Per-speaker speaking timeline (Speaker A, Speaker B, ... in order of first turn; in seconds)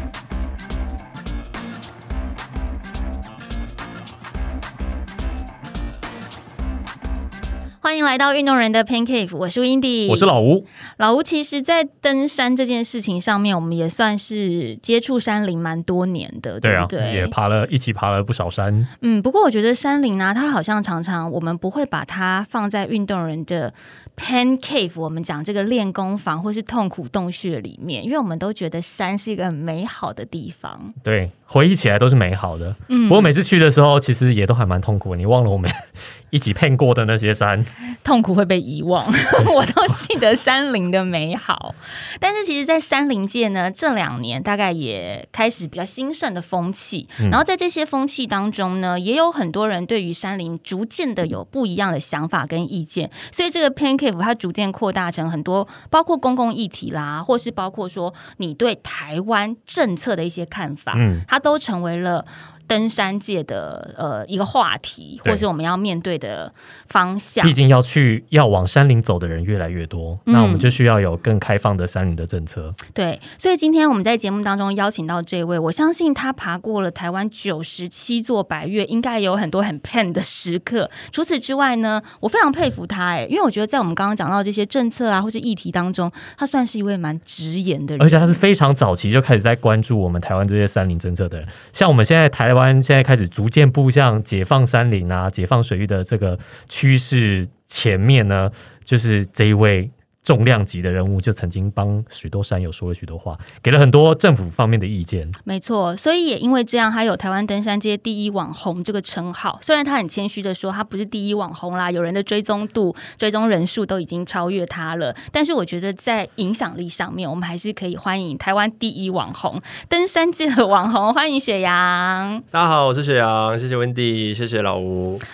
Speaker A: 7.8-10.3, 11.0-17.3, 19.0-30.9, 32.9-33.3, 38.0-67.6, 70.3-70.7, 72.9-88.4, 105.5-122.4
Speaker B: 10.1-10.7, 16.6-18.9, 31.0-37.7, 60.9-61.2, 67.4-72.8, 88.0-105.3
Speaker C: 122.5-125.2